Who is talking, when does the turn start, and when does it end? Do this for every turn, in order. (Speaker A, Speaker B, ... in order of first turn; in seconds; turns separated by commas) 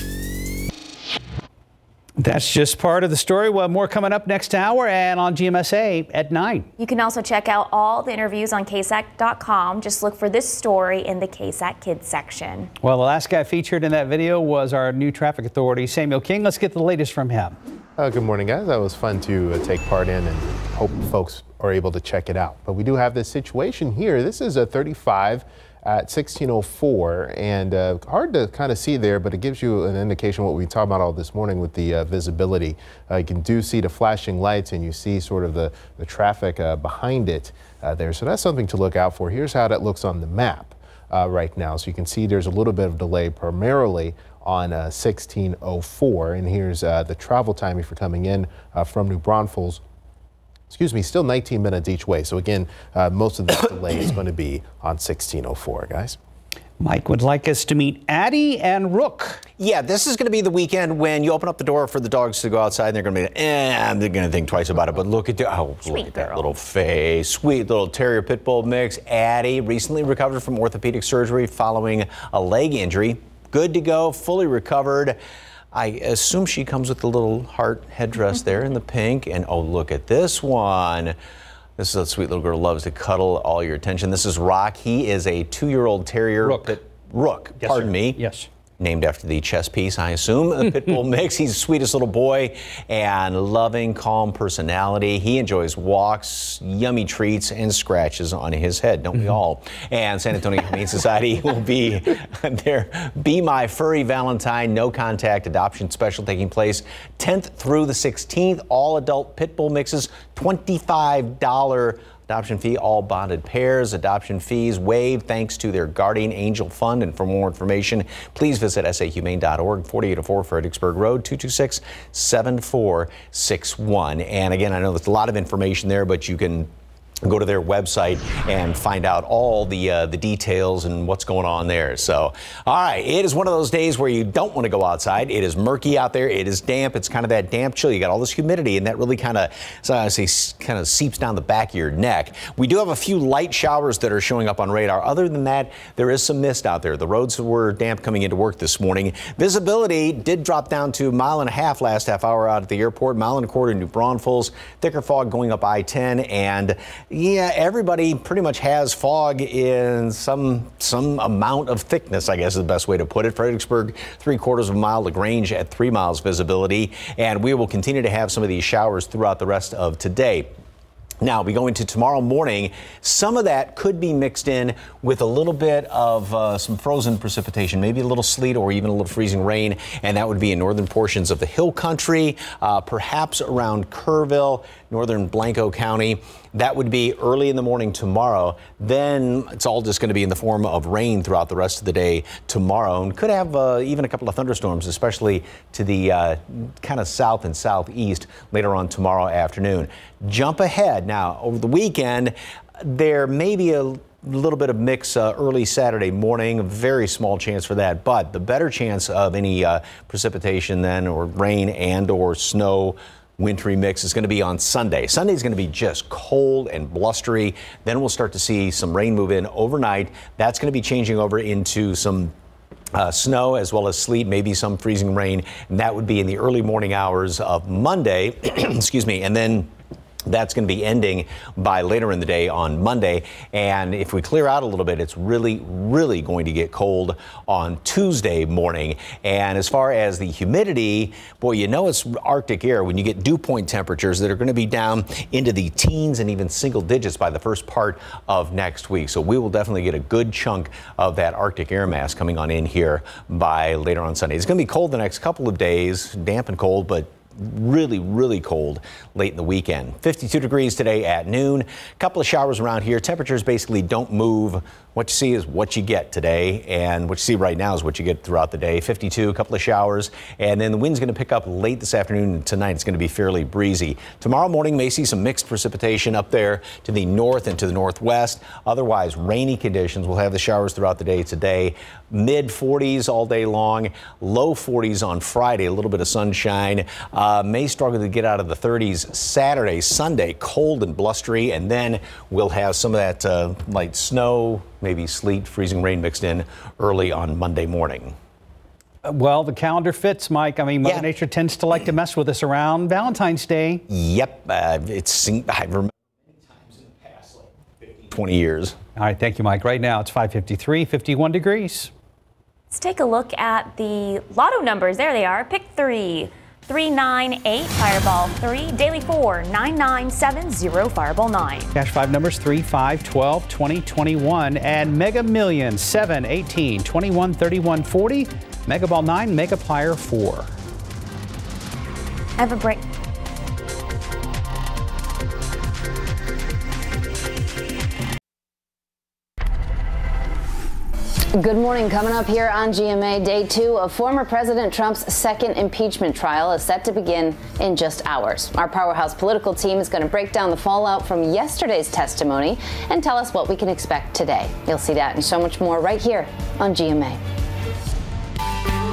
Speaker A: 2.2-6.7, Speaker B: 6.8-12.7, Speaker A: 12.8-17.6, Speaker C: 18.0-49.8, Speaker C: 50.7-56.2, Speaker A: 56.8-59.4, Speaker D: 59.6-75.2, Speaker B: 65.8-66.5, Speaker D: 75.7-81.1, Speaker D: 81.8-88.2, Speaker A: 86.4-86.8, Speaker A: 87.6-88.5, Speaker D: 88.8-126.7, Speaker D: 127.2-170.5, Speaker D: 171.2-222.3, Speaker D: 222.9-229.7, Speaker D: 230.2-298.1, Speaker A: 299.0-303.8, Speaker D: 303.9-305.9, Speaker D: 308.0-308.8, Speaker A: 309.0-311.9, Speaker B: 312.7-321.7, Speaker A: 321.7-330.5, Speaker B: 332.4-332.8, Speaker E: 341.4-357.2